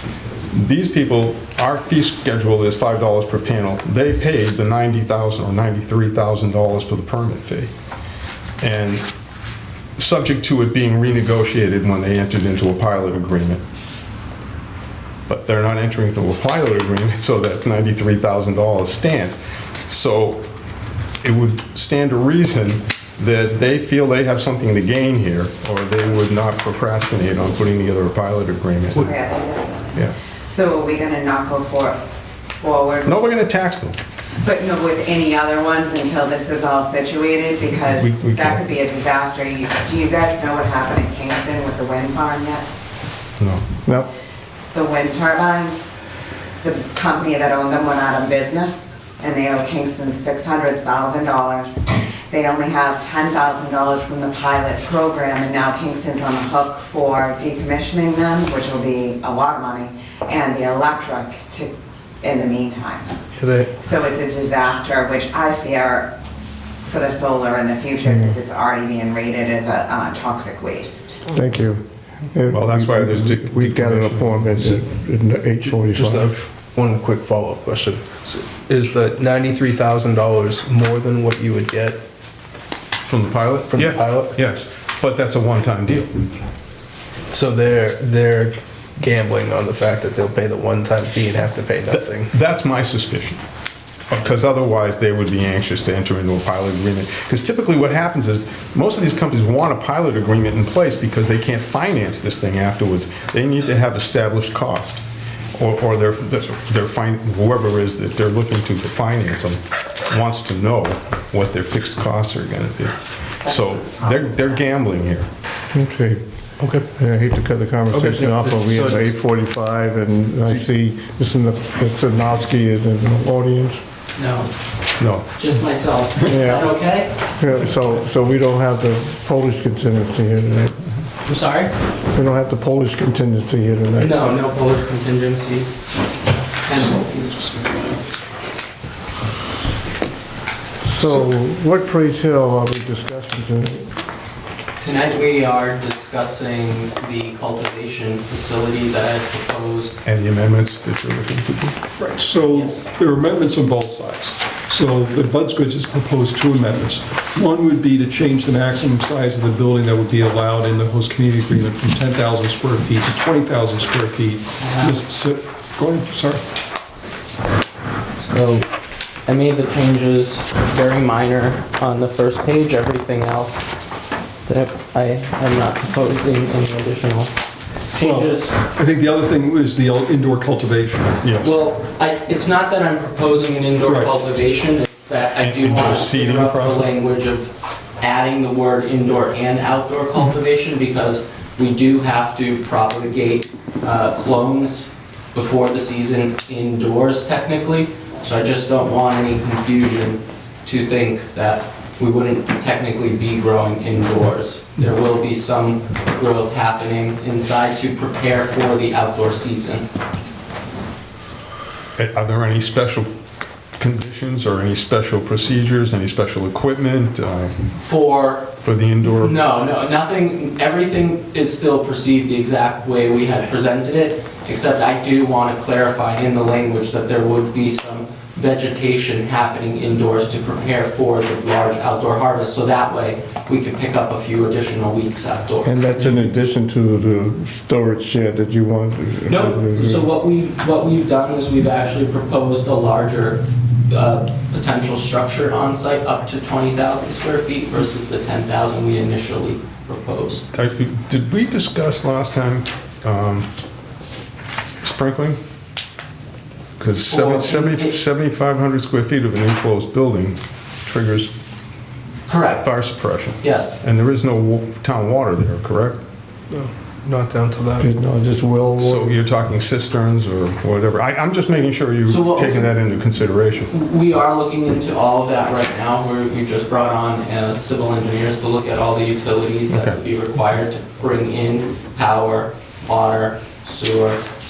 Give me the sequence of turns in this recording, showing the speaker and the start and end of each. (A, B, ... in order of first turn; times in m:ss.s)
0:00.5-0:07.7 A
0:08.6-0:09.0 A
0:10.0-0:13.6 A
0:15.3-0:20.4 A
0:21.2-0:29.1 A
0:29.0-0:32.0 B
0:32.6-0:33.2 B
0:33.1-0:34.0 A
0:34.4-0:42.6 B
0:38.0-0:38.6 A
0:43.4-0:43.6 A
0:44.7-0:45.8 B
0:46.6-1:01.7 B
1:02.2-1:03.1 B
1:03.4-1:03.7 C
1:03.8-1:06.1 B
1:06.8-1:11.2 B
1:08.1-1:08.3 D
1:11.3-1:11.8 D
1:12.3-1:16.4 D
1:12.5-1:14.8 A
1:16.0-1:22.0 C
1:23.1-1:26.2 A
1:23.7-1:24.2 C
1:27.3-1:32.3 C
1:31.9-1:33.4 A
1:34.1-1:45.0 A
1:45.6-1:55.3 A
1:55.7-1:56.2 D
1:56.9-2:03.8 D
2:04.2-2:04.5 E
2:05.0-2:05.3 A
2:05.3-2:07.2 E
2:06.2-2:06.7 D
2:07.4-2:10.8 D
2:11.2-2:11.8 E
2:12.1-2:14.2 D
2:14.0-2:15.8 E
2:16.6-2:18.2 E
2:20.8-2:23.9 D
2:24.8-2:30.0 E
2:30.0-2:31.8 A
2:32.0-2:46.4 F
2:32.5-2:32.9 E
2:44.6-2:45.1 E
2:48.2-2:48.7 E
2:49.3-2:53.8 E
2:54.5-2:57.3 E
2:57.9-2:58.6 E
2:58.0-3:01.3 F
3:01.2-3:01.5 A
3:01.4-3:29.9 E
3:03.8-3:04.2 F
3:05.4-3:06.9 A
3:32.0-3:33.1 A
3:33.8-3:37.6 A
3:37.8-3:38.5 E
3:38.6-3:39.4 A
3:39.1-3:56.2 E
3:55.6-4:00.1 D
3:59.3-4:10.5 E
4:10.5-4:13.5 A
4:14.8-4:15.4 A
4:16.8-4:21.3 A
4:17.1-4:18.0 E
4:22.3-4:22.7 E
4:22.6-4:26.0 A
4:23.4-4:23.8 E
4:26.5-4:27.9 C
4:27.8-4:29.2 D
4:28.8-4:33.7 A
4:32.1-4:32.7 E
4:33.7-4:44.2 E
4:39.7-4:40.0 A